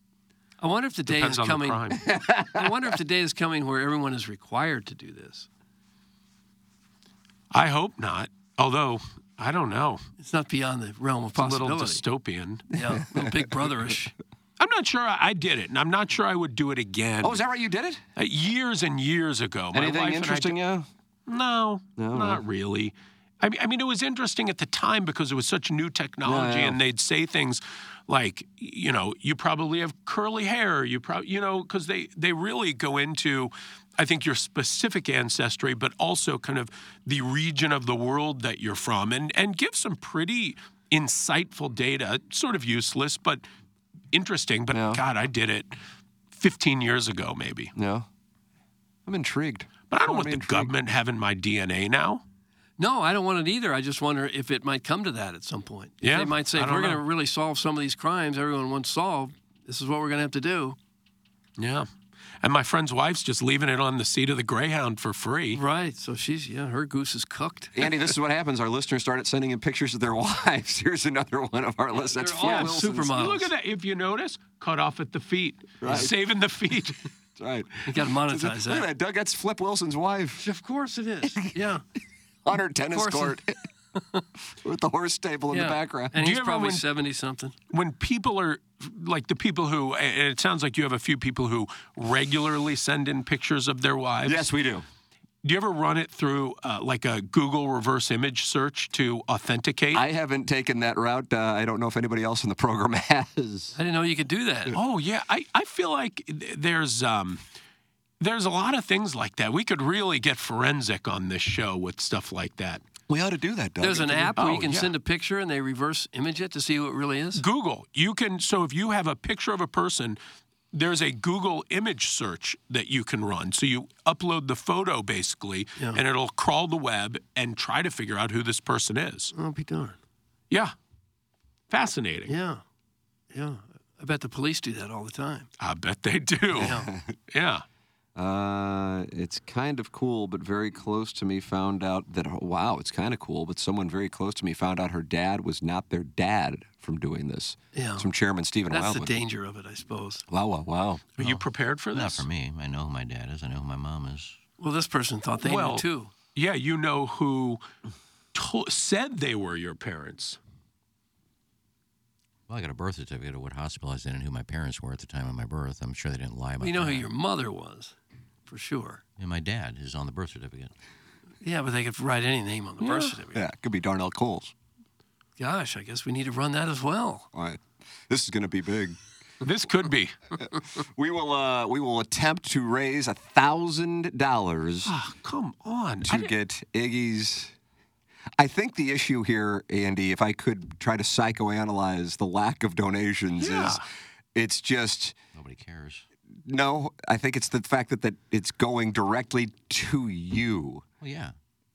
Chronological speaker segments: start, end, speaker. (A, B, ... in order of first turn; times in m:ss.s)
0:00.6-0:05.5 A
0:01.0-0:02.0 B
0:02.0-0:02.7 C
0:07.5-0:10.0 B
0:10.2-0:12.0 A
0:11.4-0:12.6 B
0:12.7-0:14.1 A
0:14.6-0:17.4 B
0:17.2-0:18.0 C
0:18.2-0:20.6 B
0:19.7-0:20.9 C
0:21.3-0:43.4 B
0:22.0-0:22.4 C
0:26.2-0:26.8 C
0:44.1-0:45.7 B
0:44.7-0:45.0 C
0:46.3-0:47.7 B
0:47.8-0:48.0 C
0:49.0-0:50.7 C
0:49.9-0:52.2 B
0:52.8-1:00.8 A
0:56.0-0:57.0 B
1:01.6-1:01.9 B
1:02.4-1:05.6 B
1:05.5-1:07.9 A
1:07.7-1:13.1 C
1:11.9-1:13.5 A
1:12.4-1:17.0 B
1:15.8-1:16.2 C
1:17.4-1:20.4 C
1:17.8-1:18.9 A
1:20.4-1:21.8 A
1:22.4-1:23.6 C
1:22.9-1:23.4 A
1:23.9-1:24.2 A
1:24.6-1:26.2 C
1:25.5-1:27.5 A
1:26.1-1:26.8 B
1:27.7-1:34.5 B
1:34.2-1:34.8 C
1:35.4-1:40.0 B
1:39.9-1:43.8 C
1:43.8-1:44.8 A
1:44.7-1:47.4 B
1:48.2-1:52.8 B
1:53.1-1:54.5 C
1:53.8-1:57.4 A
1:54.4-1:54.9 B
1:57.4-2:00.2 B
2:00.7-2:09.3 B
2:05.8-2:06.0 A
2:09.3-2:10.0 A
2:11.7-2:12.3 B
2:12.3-2:12.6 A
2:13.3-2:15.5 A
2:15.6-2:16.8 B
2:16.5-2:17.1 C
2:16.6-2:16.9 A
2:17.3-2:17.6 B
2:18.1-2:29.2 C
2:27.7-2:28.1 A
2:28.7-2:30.2 A
2:30.3-2:31.1 C
2:31.2-2:32.2 B
2:31.2-2:34.4 D
2:34.6-2:36.1 A
2:35.4-2:37.6 B
2:38.3-2:40.4 B
2:42.5-2:47.1 D
2:46.6-2:48.0 A
2:48.5-2:49.0 A
2:49.2-2:50.7 D
2:51.4-2:53.4 A
2:52.8-2:53.2 B
2:53.3-2:54.5 C
2:55.4-2:57.3 A
2:57.3-2:59.0 C
2:59.4-3:00.1 B
3:00.8-3:04.9 C
3:04.8-3:06.3 B
3:06.0-3:07.5 C
3:08.4-3:13.8 C
3:13.4-3:13.8 B
3:14.3-3:15.2 C
3:15.3-3:16.0 D
3:16.4-3:20.8 C
3:21.0-3:21.3 D